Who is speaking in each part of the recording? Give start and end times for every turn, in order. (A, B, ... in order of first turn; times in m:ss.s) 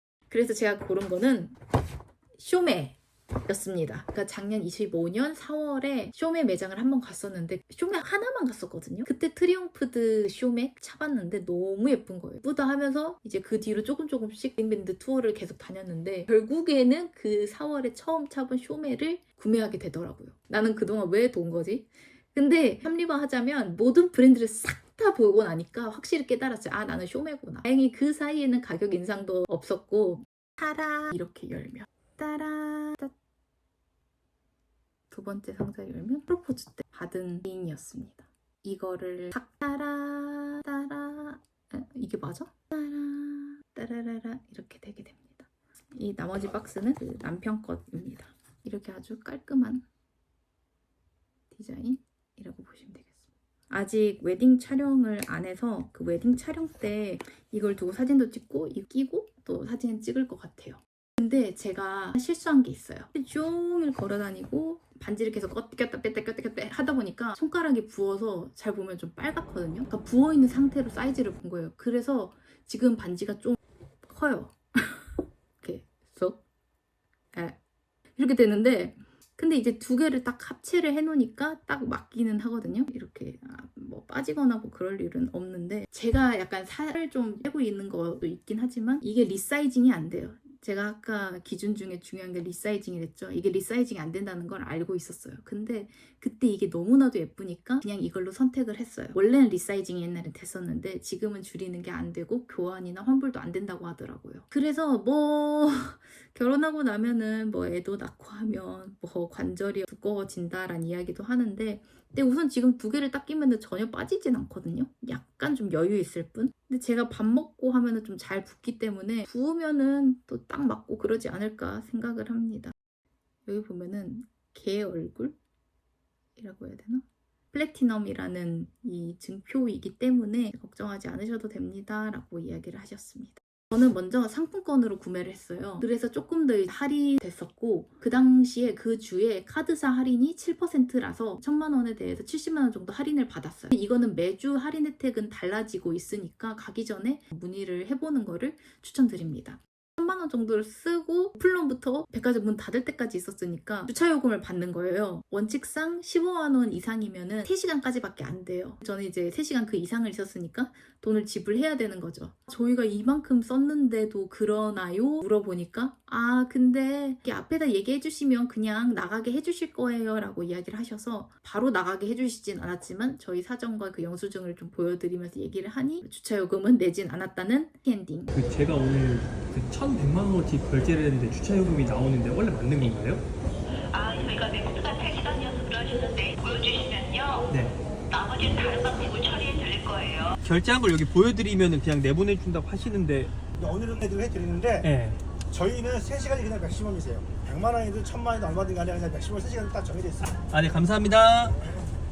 0:00.3-0:01.6 A
0:02.4-0:33.1 A
0:35.1-0:49.8 A
0:51.5-0:53.2 A
0:53.7-1:15.0 A
1:15.6-1:16.4 A
1:17.3-1:17.6 A
1:18.2-2:02.7 A
2:03.4-2:05.4 A
2:06.4-2:58.4 A
2:58.3-3:03.2 B
3:03.9-3:07.5 C
3:07.5-3:07.8 B
3:08.1-3:10.4 C
3:10.4-3:13.3 B
3:13.6-3:14.8 D
3:14.8-3:15.2 B
3:15.5-3:20.1 D
3:20.3-3:21.6 B